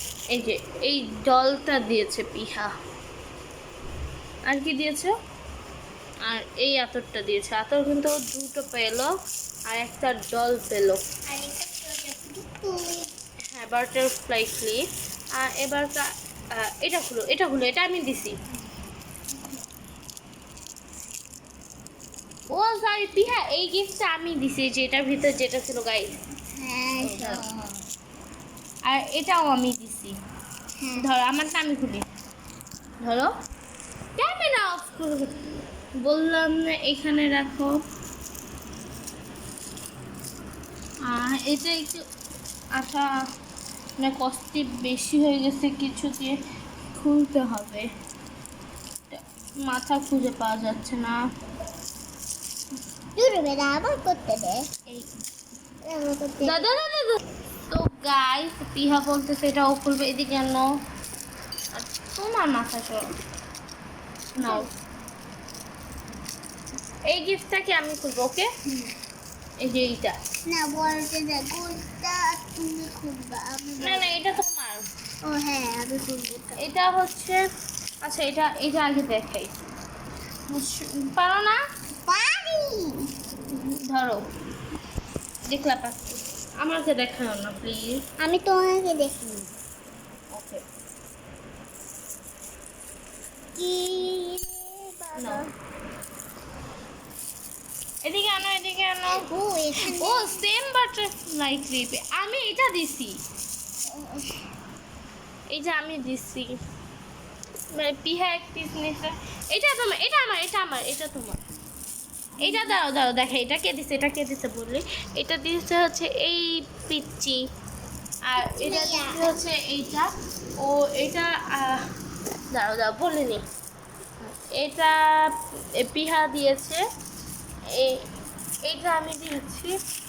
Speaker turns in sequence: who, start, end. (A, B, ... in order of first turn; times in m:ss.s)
0:00.3-0:02.7 A
0:04.5-0:05.2 A
0:06.3-0:09.1 A
0:09.7-0:11.0 A
0:11.3-0:13.1 B
0:13.5-0:14.9 A
0:15.4-0:18.4 A
0:22.5-0:26.2 A
0:26.6-0:27.8 B
0:27.0-0:27.4 A
0:28.8-0:30.2 A
0:30.8-0:31.0 B
0:31.0-0:32.1 A
0:33.0-0:33.3 A
0:34.2-0:35.4 A
0:36.0-0:37.8 A
0:41.0-0:42.0 A
0:42.8-0:43.1 A
0:44.0-0:46.4 A
0:47.0-0:47.9 A
0:49.1-0:51.2 A
0:53.2-0:54.6 B
0:55.9-0:56.7 B
0:56.4-1:00.7 A
1:01.7-1:03.1 A
1:04.4-1:04.7 A
1:04.4-1:04.7 B
1:07.1-1:08.5 A
1:09.6-1:10.2 A
1:10.5-1:14.2 B
1:13.8-1:14.8 A
1:15.2-1:16.6 B
1:16.6-1:17.4 A
1:18.0-1:19.6 A
1:20.5-1:21.6 A
1:22.1-1:23.1 B
1:23.5-1:24.2 A
1:25.5-1:28.0 A
1:28.2-1:29.5 B
1:30.3-1:30.6 A
1:33.6-1:35.5 B
1:35.2-1:35.4 A
1:38.0-1:39.2 A
1:39.1-1:40.4 B
1:39.8-1:43.2 A
1:43.9-1:44.4 B
1:45.5-1:46.6 A
1:47.7-1:51.4 A
1:52.4-1:52.8 B
1:52.4-1:57.4 A
1:58.3-2:00.1 A
1:58.4-1:59.4 B
2:00.6-2:01.8 A
2:02.5-2:03.4 A
2:04.5-2:06.8 A
2:07.7-2:08.0 A
2:08.7-2:09.8 A